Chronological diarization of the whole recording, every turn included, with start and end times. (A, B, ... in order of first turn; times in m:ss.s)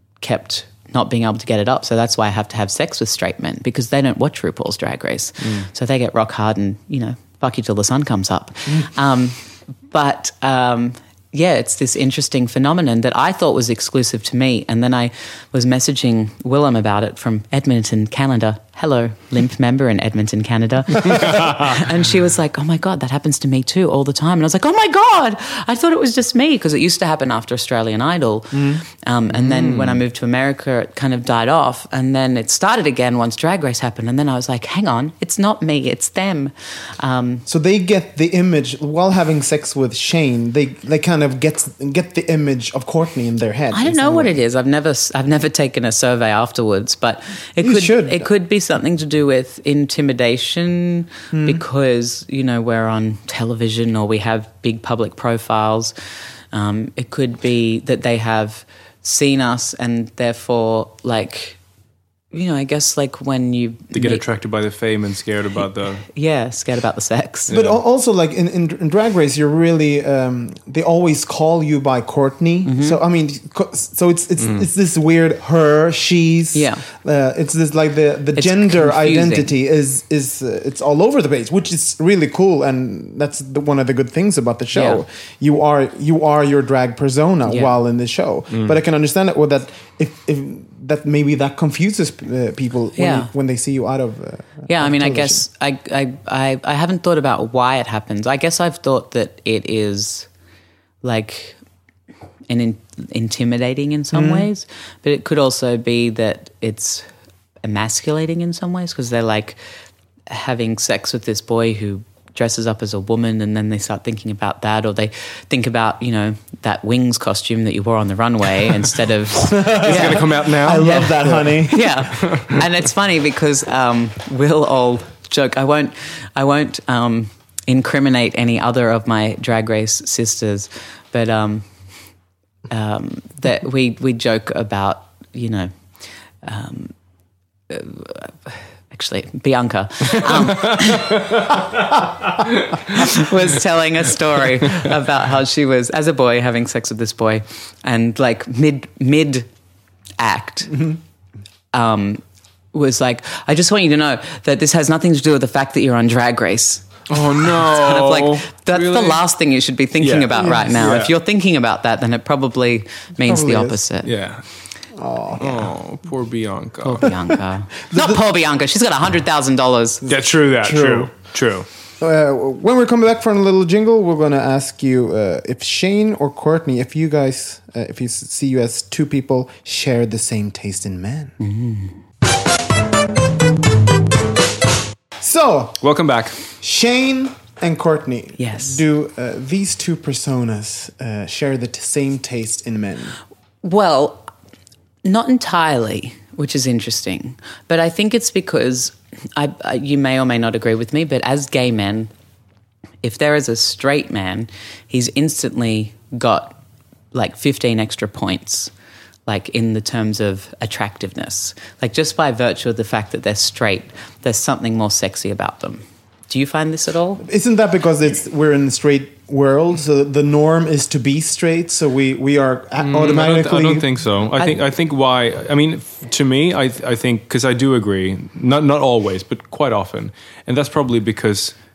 0:00.2-0:37.5 A
0:28.5-0:28.8 B
0:29.3-0:30.0 C
0:37.5-0:44.4 B
0:43.7-0:55.9 A
0:47.6-0:48.3 B
0:51.3-0:51.6 B
0:56.5-1:01.6 A
1:02.3-1:04.2 A
1:03.9-1:06.1 C
1:06.1-1:07.5 A
1:07.5-1:07.8 C
1:07.5-1:35.4 B
1:12.6-1:13.0 A
1:16.5-1:16.8 A
1:18.4-1:19.5 A
1:24.7-1:25.0 A
1:33.0-1:33.3 A
1:34.7-1:40.3 A
1:41.0-1:41.6 A
1:42.5-1:47.1 A
1:44.1-1:44.5 B
1:47.6-1:49.6 A
1:50.3-2:11.6 A
1:59.5-2:02.1 B
1:59.7-2:01.5 C
2:02.2-2:02.6 C
2:12.7-2:15.7 A
2:16.4-2:16.9 A
2:17.7-2:21.4 A
2:20.7-2:21.4 C
2:22.8-2:29.5 A
2:30.2-2:31.0 A
2:31.7-2:32.2 A
2:32.7-2:36.8 A
2:37.1-2:39.2 C
2:37.6-2:44.1 A
2:40.0-2:41.1 C
2:43.2-2:43.8 B
2:44.0-2:44.4 C
2:45.0-2:45.7 B
2:45.4-2:47.2 C
2:46.8-2:50.0 A
2:50.1-2:51.7 C
2:50.6-2:51.1 B
2:52.0-3:01.4 B
3:01.4-3:02.0 A
3:05.2-3:05.8 B
3:05.8-3:06.4 C
3:06.6-3:13.2 B
3:08.4-3:08.8 A
3:13.6-3:14.3 A
3:15.0-3:22.1 A
3:23.0-3:26.6 A
3:27.1-3:28.7 A
3:29.3-3:37.2 A
3:37.2-3:43.9 B
3:42.8-3:51.6 C